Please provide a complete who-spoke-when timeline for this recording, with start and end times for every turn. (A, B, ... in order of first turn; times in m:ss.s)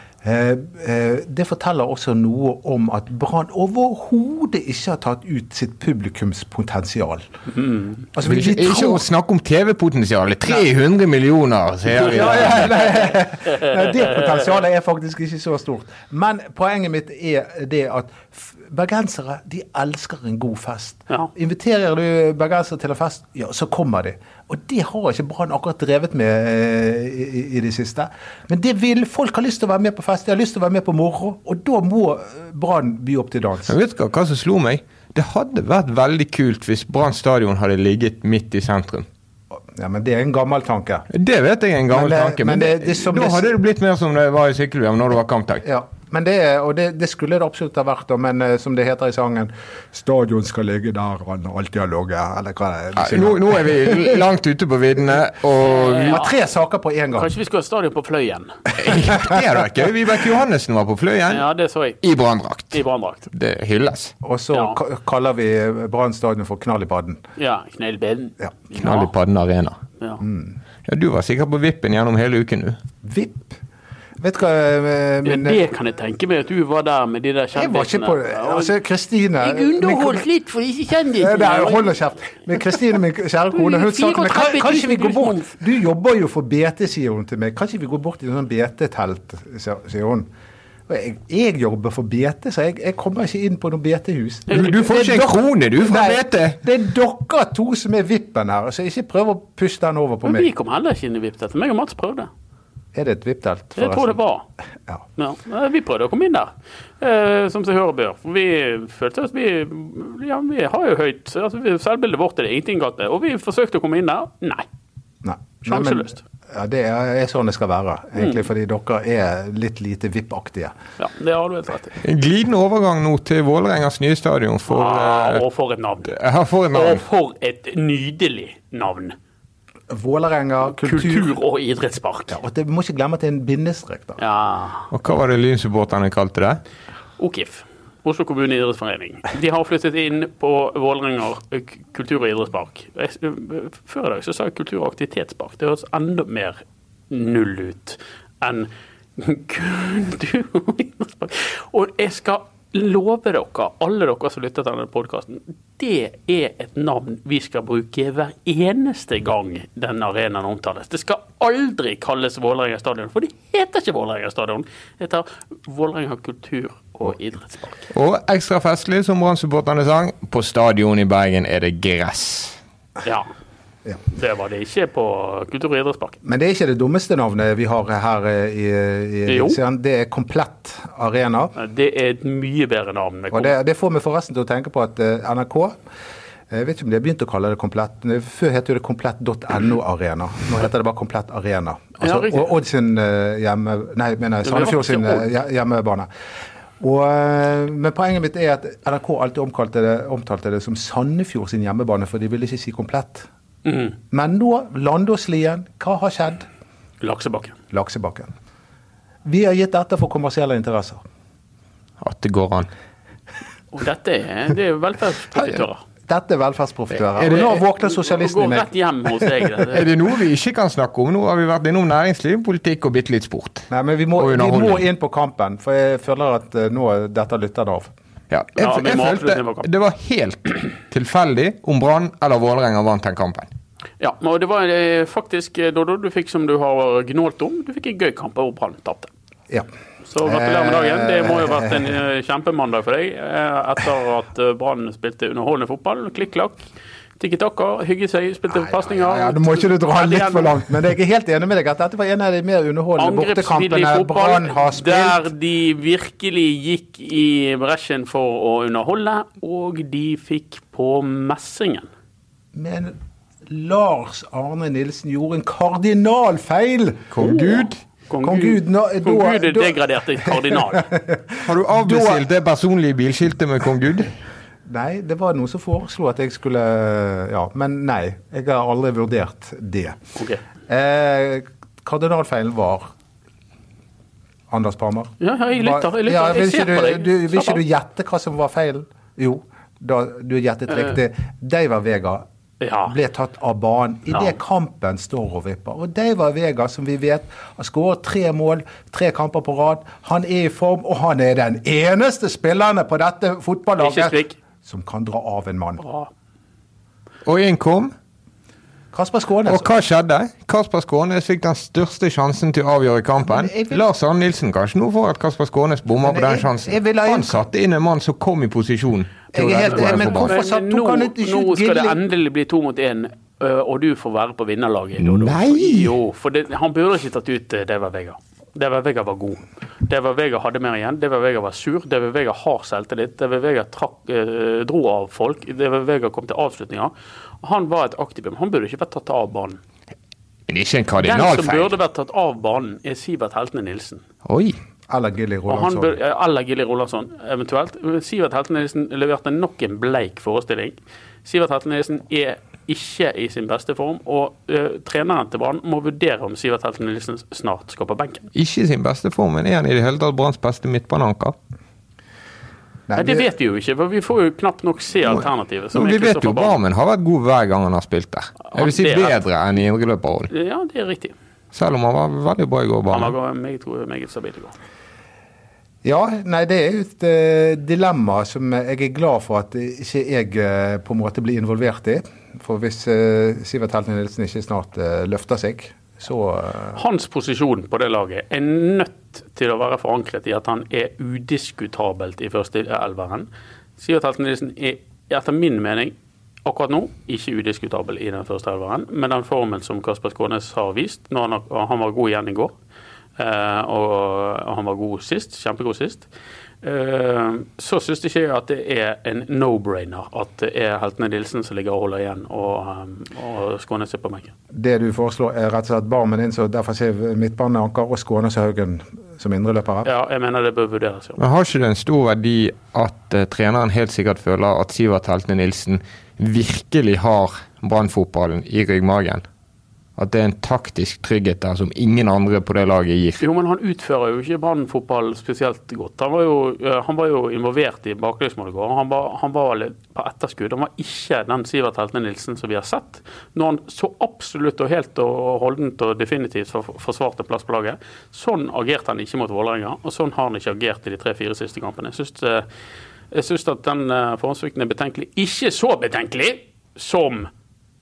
0:00.2-0:07.2 A
0:07.5-0:08.0 B
0:08.1-0:09.0 A
0:08.2-0:12.8 C
0:12.0-0:33.8 A
0:12.1-0:14.1 B
0:33.7-0:39.0 C
0:39.5-0:41.1 A
0:41.1-0:45.6 C
0:41.9-0:43.5 A
0:45.6-0:54.2 A
0:53.0-0:56.2 C
0:55.6-0:56.3 B
0:56.0-0:57.3 A
0:57.2-0:58.6 B
0:58.8-1:01.5 C
0:58.9-0:59.4 A
1:01.3-1:02.0 B
1:02.0-1:02.8 C
1:02.7-1:03.3 B
1:03.3-1:04.1 C
1:04.2-1:07.2 A
1:07.4-1:09.1 B
1:08.8-1:09.8 C
1:10.2-1:10.6 A
1:10.8-1:12.8 C
1:13.0-1:13.5 A
1:14.2-1:15.6 A
1:15.2-1:18.7 B
1:17.5-1:20.2 A
1:19.4-1:21.9 B
1:21.2-1:30.3 A
1:23.5-1:25.6 B
1:30.9-1:40.5 A
1:34.5-1:34.8 B
1:34.5-1:36.6 C
1:40.2-1:42.3 B
1:42.9-1:44.2 A
1:43.8-1:44.5 B
1:45.2-1:54.6 B
1:55.2-2:00.7 A
1:55.6-1:56.2 B
1:58.1-1:58.4 B
2:01.0-2:02.0 B
2:02.0-2:05.4 C
2:04.7-2:06.1 B
2:06.1-2:07.0 C
2:06.7-2:09.1 B
2:09.9-2:11.4 A
2:10.8-2:12.4 B
2:12.3-2:14.2 A
2:14.2-2:14.9 B
2:14.9-2:16.6 C
2:17.2-2:47.9 B
2:47.9-2:52.6 C
2:53.0-2:53.3 B
2:54.1-2:56.2 B
2:56.2-3:01.5 A
2:59.3-2:59.6 B
3:01.6-3:03.5 B
3:03.3-3:05.8 A
3:06.5-3:16.1 A
3:12.0-3:12.5 B
3:14.4-3:15.2 B
3:16.8-3:23.3 A
3:23.6-3:24.0 B
3:24.1-3:26.5 A
3:27.0-3:27.6 B
3:27.7-3:28.3 A
3:29.2-3:31.0 A
3:32.0-3:32.7 C
3:33.7-3:35.8 B
3:36.1-3:38.7 A
3:37.2-3:37.5 C
3:37.3-3:39.9 B
3:39.7-3:44.8 C
3:43.7-3:47.9 A
3:48.3-3:53.5 C
3:48.6-3:49.7 B
3:54.0-3:59.1 B
4:00.1-4:06.6 B
4:00.2-4:01.9 A
4:07.2-4:10.5 B
4:08.5-4:15.3 A
4:13.0-4:21.9 B
4:22.5-4:27.1 A
4:27.1-4:27.8 C
4:27.2-4:30.9 B
4:28.2-4:32.2 A
4:31.4-4:34.1 C
4:34.6-4:40.0 A
4:40.2-4:40.4 B
4:40.7-4:42.9 A
4:44.5-4:52.2 A
4:45.2-4:47.6 B
4:52.6-4:52.9 B
4:52.9-5:05.8 A
5:03.8-5:04.4 B
5:05.8-5:06.1 B
5:07.2-5:07.9 C
5:08.9-5:09.7 A
5:09.5-5:20.3 C
5:13.2-5:13.8 A
5:16.0-5:17.5 A
5:19.3-5:22.0 A
5:19.4-5:39.6 B
5:25.0-5:25.9 C
5:40.5-5:41.7 C
5:41.0-5:44.0 B
5:44.2-5:44.6 C
5:44.9-5:45.9 A
5:45.5-5:58.3 B
5:58.3-6:01.3 C
6:02.9-6:03.3 A
6:03.0-6:06.6 B
6:05.7-6:10.3 C
6:08.5-6:09.2 B
6:10.3-6:11.1 B
6:11.5-6:13.1 C
6:12.9-6:14.5 B
6:15.8-6:26.8 A
6:26.7-6:35.9 B
6:36.4-6:42.5 B
6:43.2-6:46.1 B
6:46.6-6:54.3 B
6:54.5-6:59.9 A
6:59.8-7:01.2 B
7:01.2-7:09.2 C
7:10.0-7:13.2 C
7:13.2-7:32.4 B
7:33.1-7:37.3 B